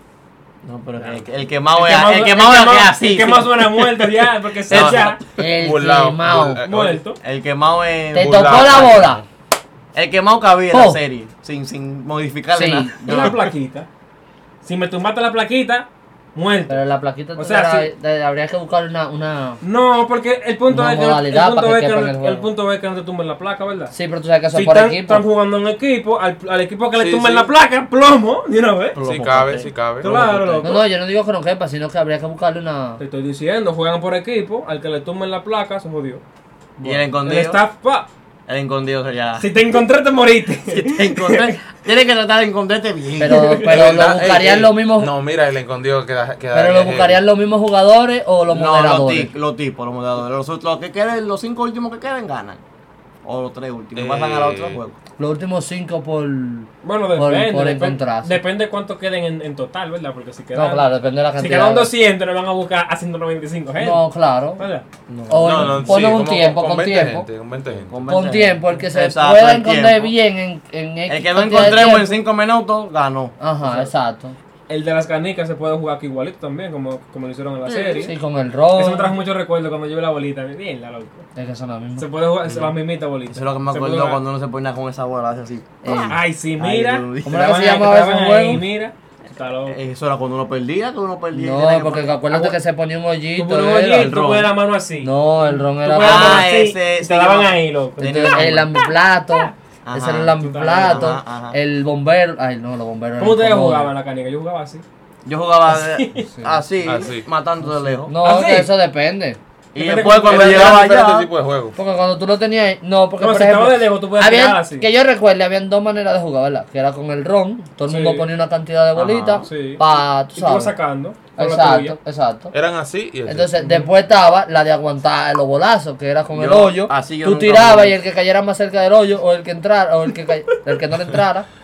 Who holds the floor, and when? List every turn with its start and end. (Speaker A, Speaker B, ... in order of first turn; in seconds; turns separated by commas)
Speaker A: 0.6-5.2, Speaker B: 1.0-5.2, Speaker C: 4.7-7.0, Speaker D: 5.4-6.6, Speaker B: 6.6-7.2, Speaker A: 7.2-9.0, Speaker D: 8.1-9.2, Speaker C: 8.1-9.2, Speaker A: 9.9-13.5, Speaker D: 10.7-11.0, Speaker D: 12.5-13.0, Speaker B: 13.0-13.9, Speaker B: 14.6-16.8, Speaker D: 16.7-19.6, Speaker B: 17.4-17.9, Speaker B: 19.6-23.9, Speaker D: 20.7-22.5, Speaker D: 23.9-25.2, Speaker B: 24.5-29.0, Speaker C: 26.9-27.5, Speaker A: 28.9-30.8, Speaker C: 29.0-30.1, Speaker B: 30.0-30.8, Speaker D: 30.6-33.0, Speaker B: 33.0-36.2, Speaker B: 36.8-38.1, Speaker A: 36.8-37.6, Speaker A: 38.5-39.5, Speaker B: 39.4-41.6, Speaker A: 40.7-44.6, Speaker D: 43.2-45.1, Speaker B: 43.2-43.7, Speaker C: 43.7-47.2, Speaker D: 46.5-49.3, Speaker A: 48.5-52.6, Speaker A: 53.2-55.0, Speaker C: 53.9-54.8, Speaker D: 55.2-58.4, Speaker B: 56.8-64.8, Speaker D: 60.5-61.9, Speaker D: 63.8-64.6, Speaker A: 65.1-66.2, Speaker D: 65.3-67.3, Speaker C: 65.4-67.9, Speaker A: 67.7-70.1, Speaker D: 68.1-72.2, Speaker A: 71.1-73.8, Speaker D: 73.4-74.3, Speaker B: 74.7-78.1, Speaker A: 77.7-78.0, Speaker D: 77.9-79.1, Speaker B: 78.7-81.2, Speaker D: 81.3-82.1, Speaker B: 82.0-84.2, Speaker A: 83.3-87.4, Speaker D: 85.8-86.2, Speaker B: 85.8-89.8, Speaker D: 87.2-88.6, Speaker A: 89.6-92.5, Speaker D: 91.3-94.1, Speaker B: 93.3-99.5, Speaker A: 93.9-94.5, Speaker D: 95.0-96.5, Speaker A: 96.0-98.8, Speaker D: 98.0-103.9, Speaker A: 99.8-101.6, Speaker B: 100.4-101.2, Speaker B: 103.2-104.8, Speaker A: 105.2-108.1, Speaker B: 105.7-106.2, Speaker D: 106.3-106.6, Speaker C: 106.8-107.3, Speaker D: 108.0-109.4, Speaker B: 108.2-108.7, Speaker A: 109.7-111.3, Speaker B: 109.8-110.8, Speaker C: 110.2-111.8, Speaker D: 111.8-120.7, Speaker B: 113.2-114.9, Speaker B: 117.8-118.3, Speaker A: 118.9-119.5, Speaker B: 119.4-122.0, Speaker D: 121.3-122.5, Speaker C: 122.5-123.5, Speaker D: 123.2-131.5, Speaker B: 123.6-123.9, Speaker A: 126.3-127.9